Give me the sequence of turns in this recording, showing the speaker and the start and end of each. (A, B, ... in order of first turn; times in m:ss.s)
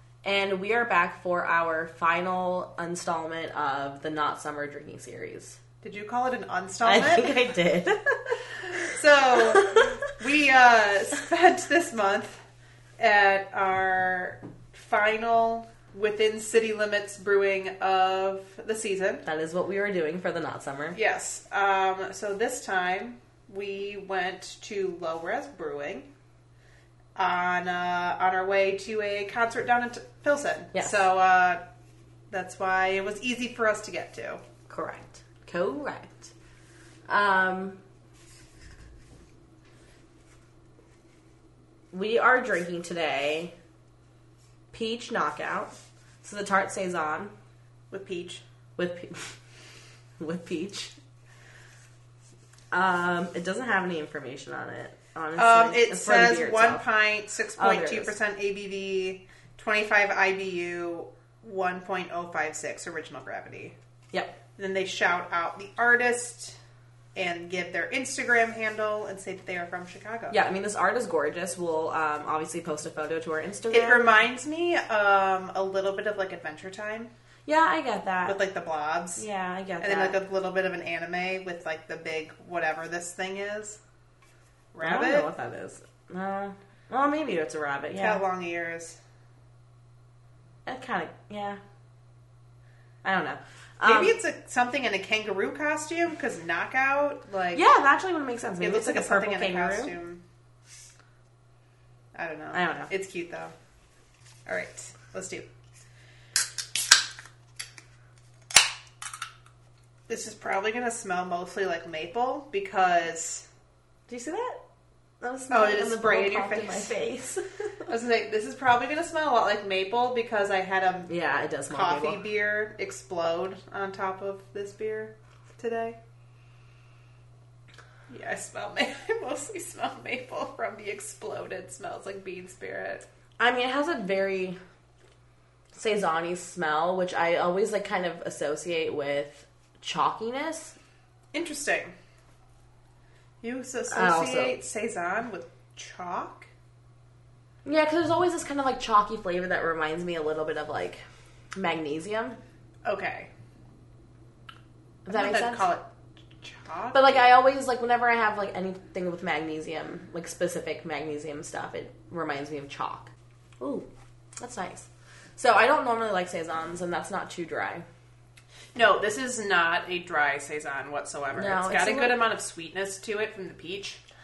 0:00.2-0:05.6 A
0:05.8-0:07.4 B
0:06.8-0:08.8 A
0:08.9-0:12.4 B
0:09.4-0:10.0 A
0:13.0-0:19.2 B
0:19.2-0:21.0 A
0:20.9-0:26.1 B
0:27.1-0:31.6 B
0:32.3-0:34.4 B
0:34.7-0:36.3 A
0:37.1-0:37.8 A
0:41.9-0:43.5 A
0:44.7-0:47.3 A
0:47.9-0:48.4 B
0:48.8-0:49.4 A
0:50.2-0:50.9 A
0:52.7-0:56.8 A
0:55.4-1:03.7 B
0:57.6-0:58.1 A
1:04.1-1:04.4 A
1:04.6-1:06.6 B
1:07.1-1:10.4 B
1:10.3-1:14.1 A
1:13.7-1:17.1 B
1:17.4-1:18.4 A
1:18.2-1:19.2 B
1:19.2-1:20.2 A
1:19.8-1:23.8 B
1:24.7-1:25.3 B
1:24.8-1:28.2 A
1:27.9-1:29.0 B
1:30.6-1:31.6 A
1:33.0-1:34.2 A
1:33.8-1:37.6 B
1:37.5-1:39.9 A
1:38.6-1:40.2 B
1:42.1-1:43.5 B
1:42.5-1:42.9 A
1:44.5-1:45.5 B
1:50.1-1:53.5 B
1:54.1-1:54.6 A
1:55.2-1:57.9 A
1:55.5-1:56.9 B
1:57.9-2:01.1 B
2:01.1-2:02.3 A
2:01.7-2:06.0 B
2:08.1-2:13.0 B
2:13.4-2:14.6 A
2:15.7-2:20.8 A
2:21.3-2:21.9 B
2:23.4-2:26.5 B
2:23.9-2:24.6 A
2:27.6-2:31.0 A
2:31.5-2:32.4 A
2:32.8-2:33.3 B
2:35.0-2:35.8 B
2:35.1-2:35.7 A
2:36.4-2:37.2 B
2:36.9-2:43.9 A
2:44.4-2:47.8 A
2:48.7-2:54.0 B
2:51.3-2:52.2 A